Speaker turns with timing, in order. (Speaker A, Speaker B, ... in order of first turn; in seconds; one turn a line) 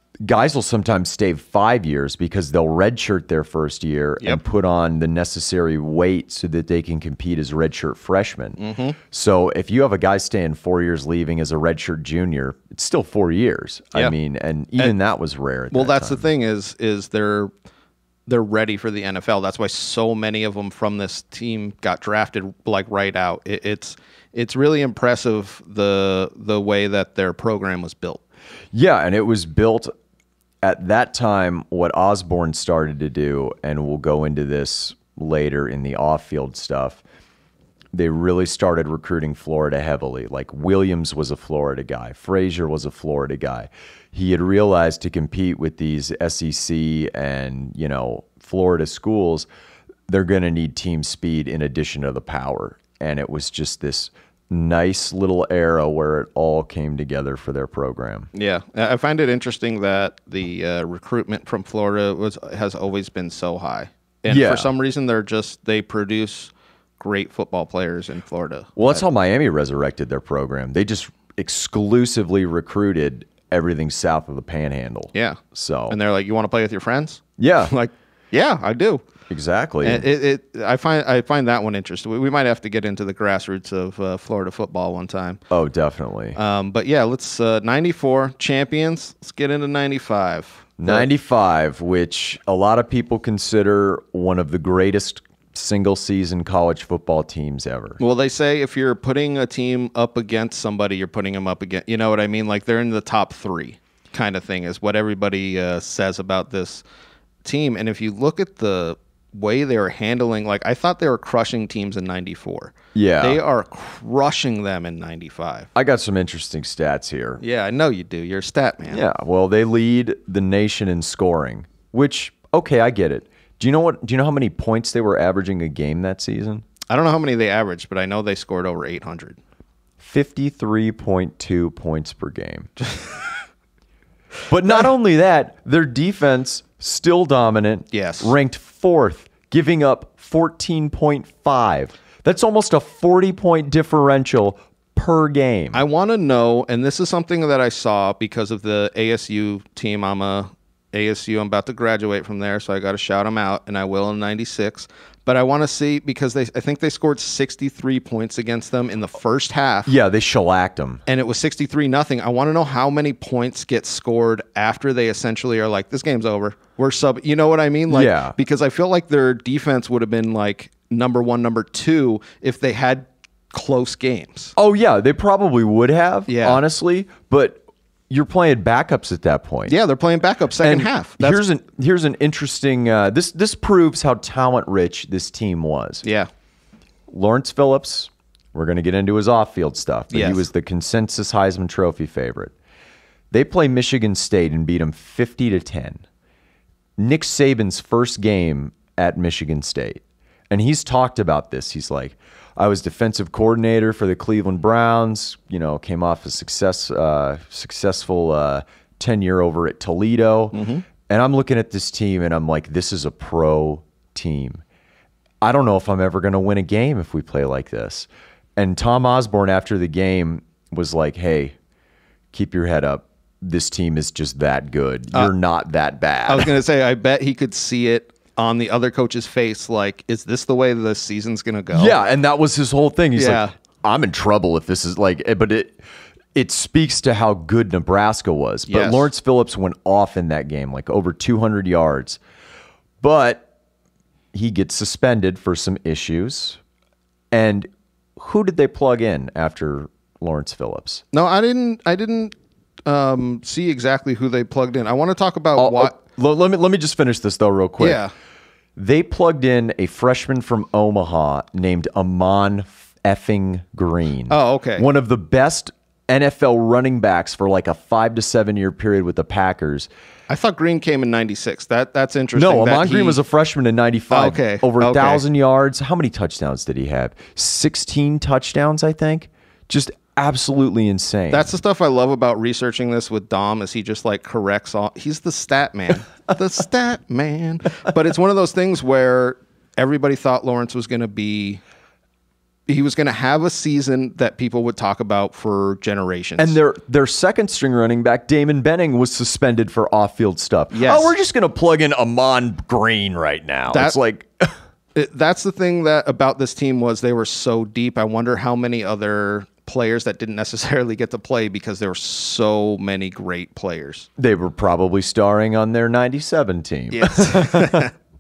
Speaker A: 0.2-8.6
Speaker B: 8.6-9.0
Speaker A: 9.1-16.2
Speaker B: 15.7-17.5
Speaker B: 18.3-28.2
Speaker A: 28.7-29.9
Speaker A: 30.6-37.0
Speaker A: 37.9-49.5
Speaker A: 50.1-58.3
Speaker B: 58.3-69.0
Speaker A: 64.3-64.7
Speaker A: 68.8-76.0
Speaker B: 75.1-79.0
Speaker A: 77.4-77.7
Speaker A: 79.3-80.1
Speaker B: 79.8-85.4
Speaker A: 85.5-86.4
Speaker B: 86.4-91.1
Speaker A: 90.8-98.0
Speaker B: 98.0-106.8
Speaker B: 107.4-115.7
Speaker A: 113.0-113.4
Speaker A: 115.8-117.4
Speaker B: 117.4-119.0
Speaker A: 118.9-126.7
Speaker B: 126.9-129.4
Speaker A: 130.0-132.7
Speaker A: 134.5-145.8
Speaker B: 137.9-138.3
Speaker B: 145.7-159.9
Speaker A: 159.9-161.0
Speaker B: 161.1-174.6
Speaker A: 167.9-168.4
Speaker A: 174.6-179.7
Speaker B: 176.3-176.6
Speaker B: 179.7-181.4
Speaker A: 180.6-186.0
Speaker B: 186.0-186.3
Speaker A: 187.1-192.5
Speaker B: 190.1-190.5
Speaker A: 193.3-196.0
Speaker A: 197.0-214.6
Speaker B: 210.5-210.8
Speaker A: 215.4-221.6
Speaker A: 222.3-226.5
Speaker B: 226.3-232.0
Speaker A: 231.7-235.8
Speaker B: 233.2-233.5
Speaker A: 236.3-242.2
Speaker B: 238.7-239.1
Speaker A: 243.0-243.5
Speaker A: 244.3-246.6
Speaker A: 247.3-251.0
Speaker B: 251.1-252.3
Speaker B: 252.9-256.0
Speaker A: 255.6-258.0
Speaker B: 257.8-258.1
Speaker A: 258.8-269.9
Speaker B: 264.3-264.9
Speaker B: 270.3-273.2
Speaker A: 272.4-281.5
Speaker B: 274.1-275.2
Speaker B: 281.3-291.6
Speaker B: 292.7-296.6
Speaker A: 296.4-304.6
Speaker B: 300.7-301.1
Speaker B: 303.7-304.0
Speaker B: 304.9-314.1
Speaker A: 314.2-317.9
Speaker B: 316.9-317.9